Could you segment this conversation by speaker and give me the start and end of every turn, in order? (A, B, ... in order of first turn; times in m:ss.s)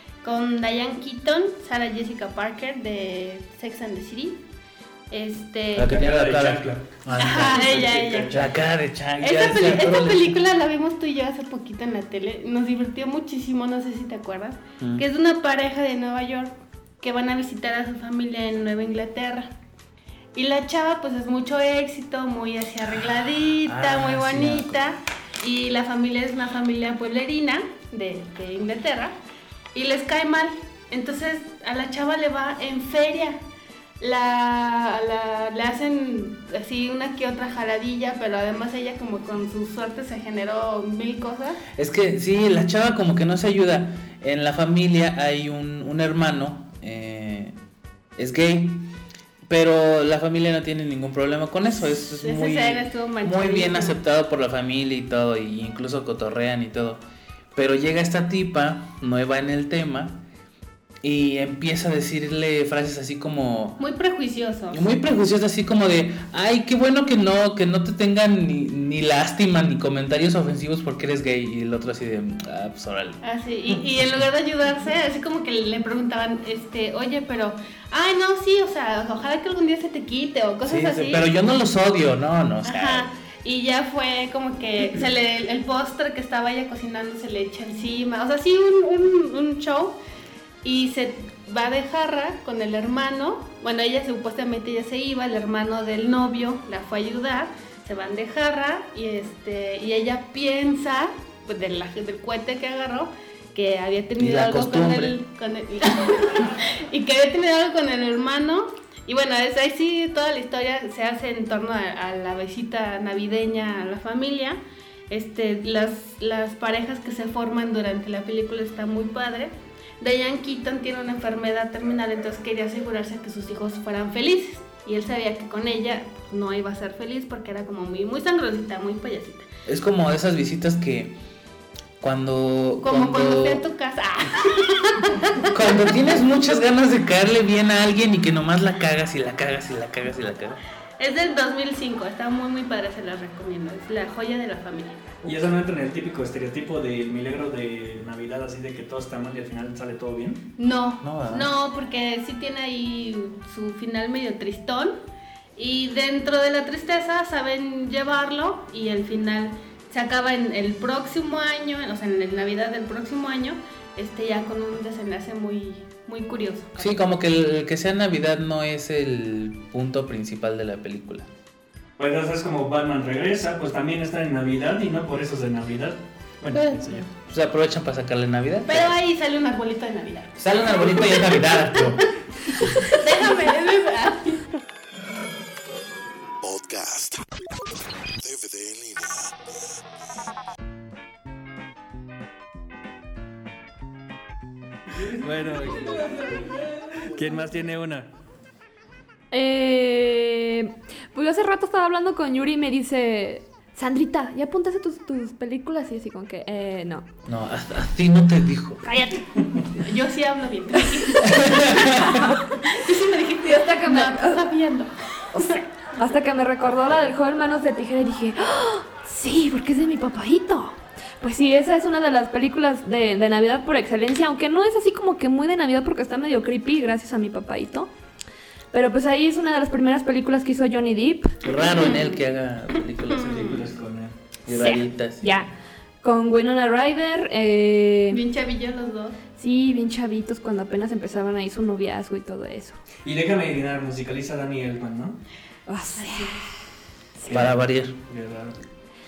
0:00.2-0:04.4 A
0:05.1-0:05.9 A
0:05.8-0:07.7 B
0:05.9-0:08.6 C
0:07.2-0:08.3 A
0:08.3-0:10.4 B
0:09.2-0:19.5 A
0:14.8-0:15.0 B
0:20.4-0:29.2 A
0:23.6-0:24.8 B
0:29.7-0:33.4 A
0:34.0-0:41.6 A
0:41.8-0:47.6 B
0:48.2-0:48.8 B
0:49.5-0:57.0 B
0:51.9-0:54.0 A
0:57.6-1:00.2 B
1:01.0-1:03.8 B
1:03.8-1:04.9 A
1:04.7-1:13.2 B
1:13.2-1:21.3 A
1:20.6-1:23.1 B
1:22.6-1:30.0 A
1:30.6-2:09.5 A
1:44.2-1:45.2 B
2:09.7-2:11.2 B
2:12.0-2:13.6 B
2:12.8-2:15.6 A
2:15.5-2:20.6 B
2:21.0-2:25.0 A
2:25.2-2:30.4 C
2:30.6-2:35.0 A
2:31.0-2:31.5 B
2:35.6-2:47.0 A
2:46.8-2:51.3 B
2:52.0-2:57.1 C
2:56.5-2:59.0 B
2:58.7-3:04.5 A
3:00.4-3:02.0 B
3:06.4-3:07.3 D
3:08.2-3:09.5 D
3:15.0-3:18.1 C
3:19.3-3:27.1 E
3:27.3-3:28.9 B
3:28.8-3:29.3 E
3:29.8-3:35.6 A
3:31.2-3:32.2 B
3:32.2-3:32.5 E
3:33.4-3:34.4 E
3:35.4-3:47.9 E
3:48.7-3:51.4 E
3:51.4-3:53.6 B
3:51.5-3:52.2 A
3:53.1-3:53.7 A
3:53.2-3:54.2 C
3:54.5-3:55.3 B
3:54.5-3:55.5 E
3:56.0-3:58.2 E
3:58.1-3:59.2 A
3:59.4-4:02.8 E
4:03.0-4:05.2 C
4:05.7-4:06.4 E
4:06.0-4:06.5 A
4:07.2-4:07.5 E
4:07.3-4:08.6 C
4:07.3-4:08.0 B